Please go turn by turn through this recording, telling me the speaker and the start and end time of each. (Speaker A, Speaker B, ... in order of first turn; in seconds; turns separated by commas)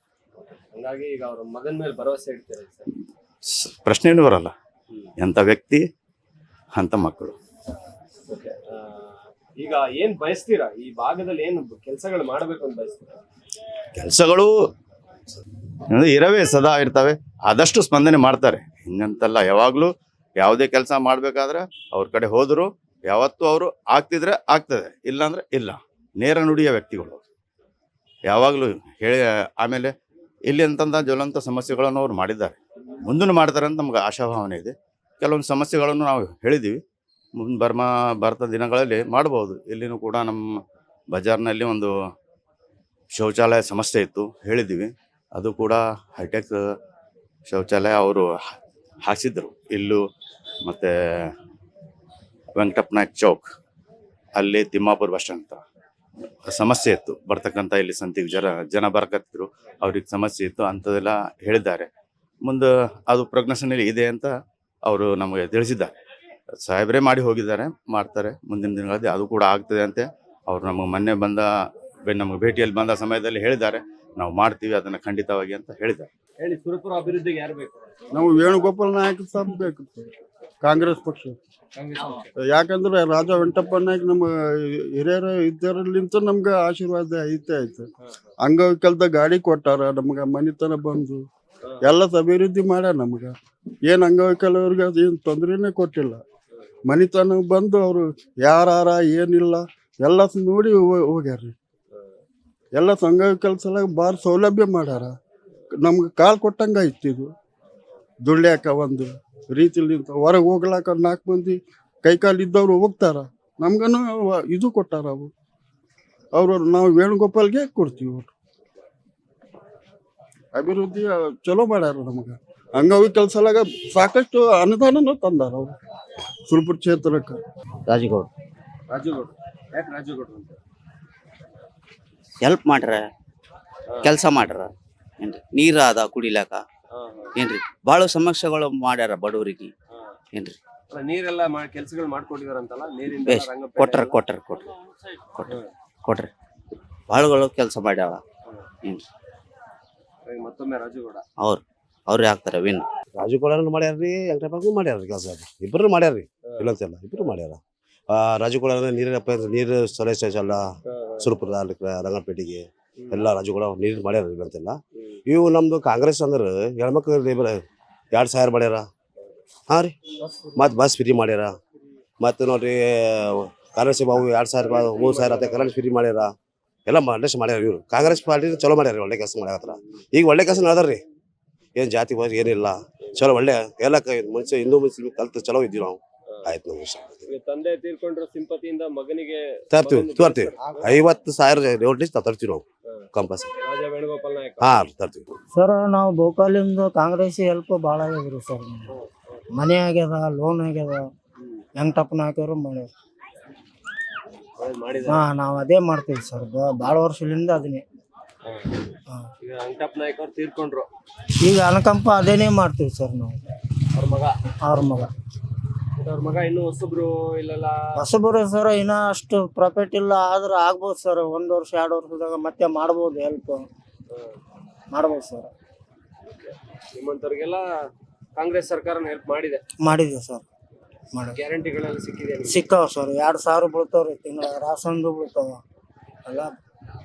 Speaker A: 0.7-2.9, Speaker B: 3.5-4.5, Speaker B: 5.2-5.8, Speaker B: 6.8-7.3, Speaker A: 8.3-13.2, Speaker B: 14.0-14.6, Speaker B: 15.9-27.2, Speaker B: 28.3-29.9, Speaker B: 30.5-36.8, Speaker B: 37.4-40.6, Speaker B: 41.1-41.9, Speaker B: 43.1-46.6, Speaker B: 47.5-48.5, Speaker B: 49.0-50.0, Speaker B: 50.6-51.3, Speaker B: 52.5-53.5, Speaker B: 54.4-55.6, Speaker B: 56.5-61.9, Speaker B: 62.4-64.3, Speaker B: 64.8-65.9, Speaker B: 66.6-76.1, Speaker A: 76.4-77.8, Speaker C: 78.1-80.1, Speaker C: 80.6-81.3, Speaker A: 81.8-82.2, Speaker C: 82.5-87.9, Speaker C: 88.4-91.2, Speaker C: 91.8-93.3, Speaker C: 93.9-96.2, Speaker C: 96.9-101.5, Speaker C: 102.7-105.1, Speaker C: 105.8-107.3, Speaker C: 108.2-115.3, Speaker C: 116.3-118.3, Speaker C: 120.5-125.7, Speaker C: 126.5-127.4, Speaker D: 127.9-128.3, Speaker A: 128.9-130.6, Speaker D: 132.4-133.1, Speaker D: 134.1-134.7, Speaker D: 135.2-136.6, Speaker A: 136.9-137.3, Speaker D: 137.4-139.7, Speaker A: 140.9-144.2, Speaker D: 143.3-144.7, Speaker D: 147.1-148.2, Speaker A: 150.3-151.2, Speaker D: 151.4-152.8, Speaker E: 153.2-160.7, Speaker A: 156.4-156.7, Speaker A: 160.9-161.2, Speaker E: 161.2-167.6, Speaker A: 163.0-163.2, Speaker E: 168.1-168.9, Speaker E: 169.7-169.9, Speaker A: 170.2-170.5, Speaker E: 170.6-171.6, Speaker E: 172.2-176.3, Speaker A: 174.6-175.7, Speaker E: 176.9-181.0, Speaker E: 181.8-187.2, Speaker A: 187.3-191.0, Speaker E: 189.7-192.6, Speaker E: 193.1-193.5, Speaker A: 193.6-194.6, Speaker E: 194.6-195.3, Speaker F: 195.5-198.9, Speaker A: 198.9-199.4, Speaker F: 199.5-201.1, Speaker F: 201.8-202.9, Speaker A: 204.6-205.2, Speaker F: 205.1-207.8, Speaker A: 208.4-208.7, Speaker A: 209.4-210.9, Speaker F: 211.4-213.4, Speaker A: 213.9-214.3, Speaker F: 214.6-215.1, Speaker A: 216.0-218.0, Speaker F: 217.9-223.7, Speaker F: 224.9-225.5, Speaker A: 226.4-227.6, Speaker A: 228.3-229.6, Speaker F: 229.8-230.4, Speaker F: 231.1-231.4, Speaker A: 231.3-232.6, Speaker F: 232.4-235.6, Speaker F: 236.2-236.5